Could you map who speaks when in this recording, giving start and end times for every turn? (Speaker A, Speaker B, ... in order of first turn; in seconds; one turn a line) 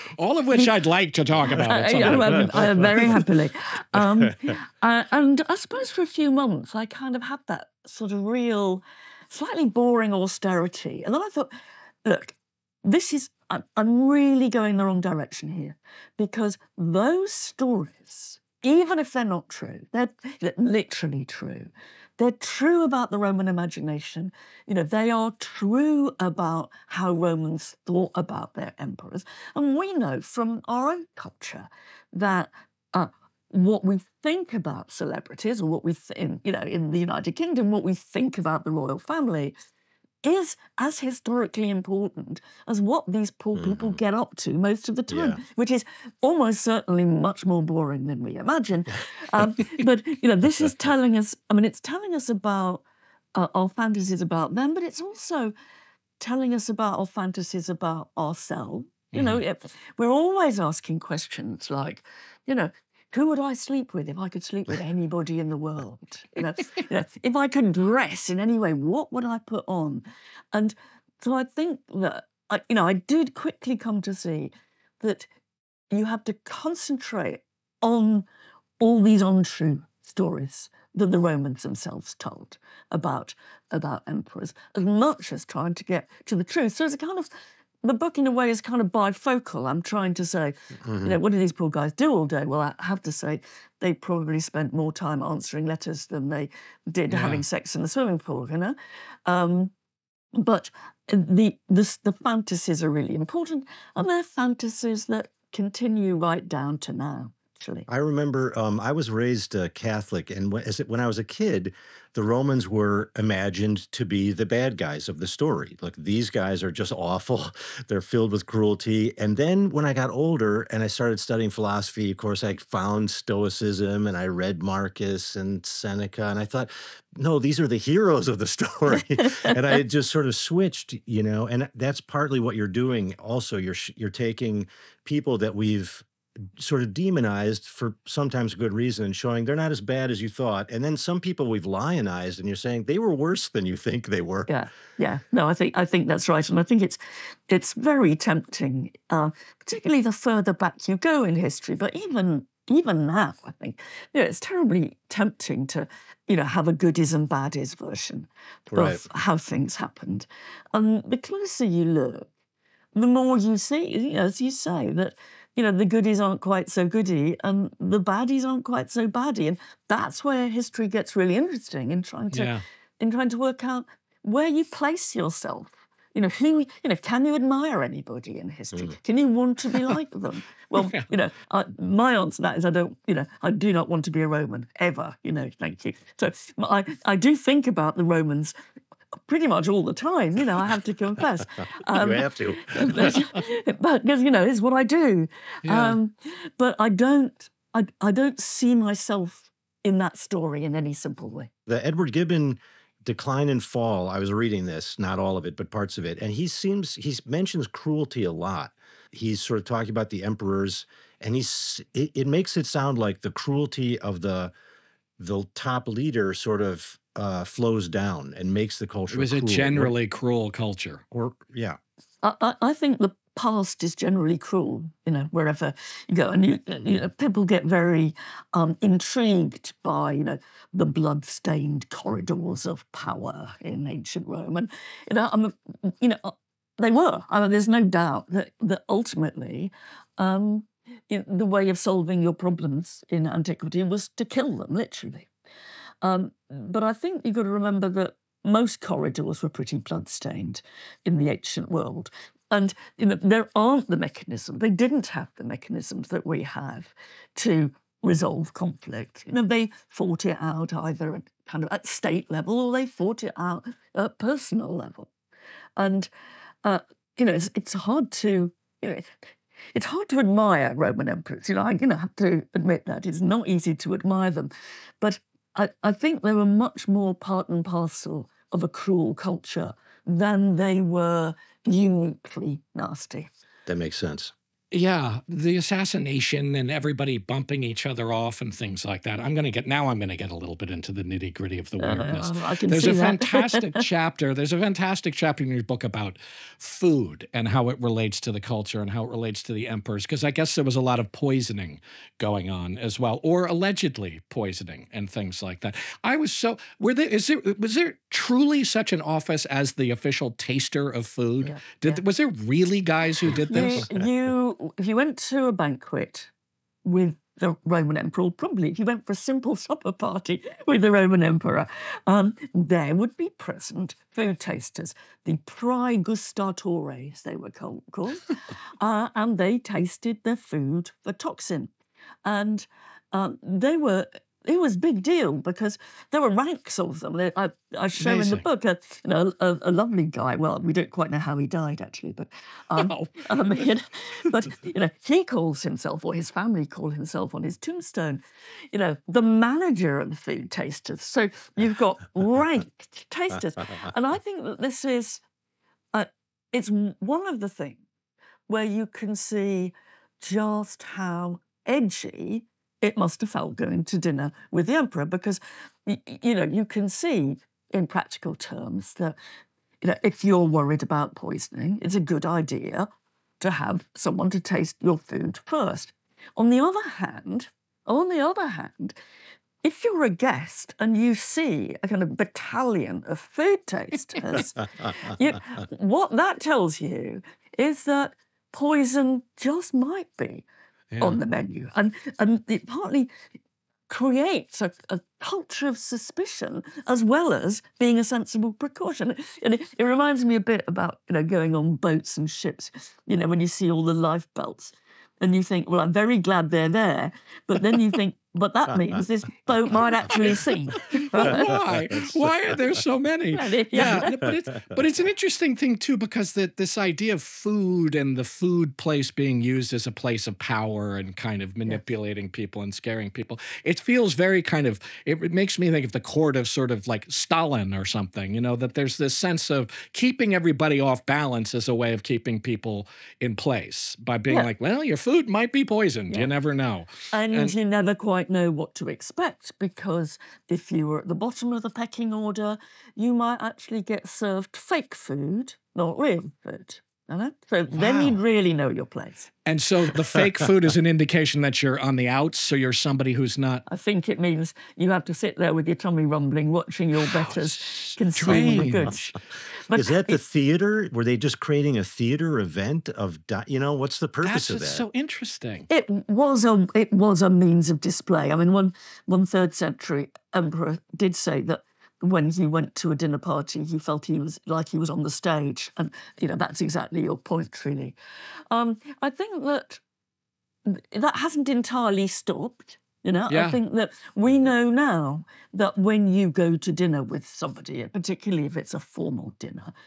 Speaker A: 0.1-3.1
Speaker B: 1.4-11.5
Speaker C: 2.0-3.1
Speaker C: 4.0-4.5
Speaker B: 12.0-39.5
Speaker B: 40.2-52.8
Speaker C: 43.5-44.0
Speaker C: 45.1-45.4
Speaker B: 53.3-55.5
Speaker B: 56.2-75.3
Speaker A: 59.1-59.4
Speaker B: 75.9-78.3
Speaker B: 78.8-87.3
Speaker B: 87.8-99.7
Speaker C: 90.8-91.2
Speaker A: 97.1-97.4
Speaker B: 100.3-107.9
Speaker C: 107.9-136.0
Speaker B: 129.2-129.6
Speaker C: 136.6-144.5
Speaker B: 144.5-162.3
Speaker C: 158.7-159.0
Speaker B: 162.9-188.5
Speaker A: 172.3-172.6
Speaker A: 180.7-181.1
Speaker B: 189.3-201.5
Speaker C: 191.9-193.4
Speaker A: 195.6-196.0
Speaker C: 201.7-214.5
Speaker C: 215.2-219.9
Speaker A: 219.1-221.0
Speaker C: 221.1-221.8
Speaker B: 222.2-245.3
Speaker B: 246.0-265.1
Speaker B: 265.8-266.1
Speaker B: 266.6-269.2
Speaker B: 269.7-283.3
Speaker C: 283.6-284.3
Speaker A: 284.7-313.9
Speaker B: 291.8-293.9
Speaker B: 311.4-312.0
Speaker C: 313.3-314.1
Speaker B: 313.4-316.3
Speaker B: 316.8-331.7
Speaker B: 332.2-355.2
Speaker A: 338.0-338.4
Speaker A: 342.8-343.7
Speaker B: 355.9-357.8
Speaker B: 358.5-369.2
Speaker B: 369.8-372.9
Speaker B: 373.4-379.0
Speaker B: 379.6-390.5
Speaker A: 390.9-391.2
Speaker B: 391.0-393.1
Speaker B: 393.9-411.6
Speaker A: 411.0-437.5
Speaker B: 413.3-414.3
Speaker B: 437.1-449.3
Speaker A: 447.7-448.2
Speaker A: 449.4-453.6
Speaker B: 453.7-460.2
Speaker A: 456.9-458.9
Speaker C: 458.3-458.6
Speaker C: 459.7-464.9
Speaker A: 464.2-465.7
Speaker B: 465.7-477.9
Speaker B: 478.5-479.8
Speaker B: 480.6-489.7
Speaker A: 483.3-483.6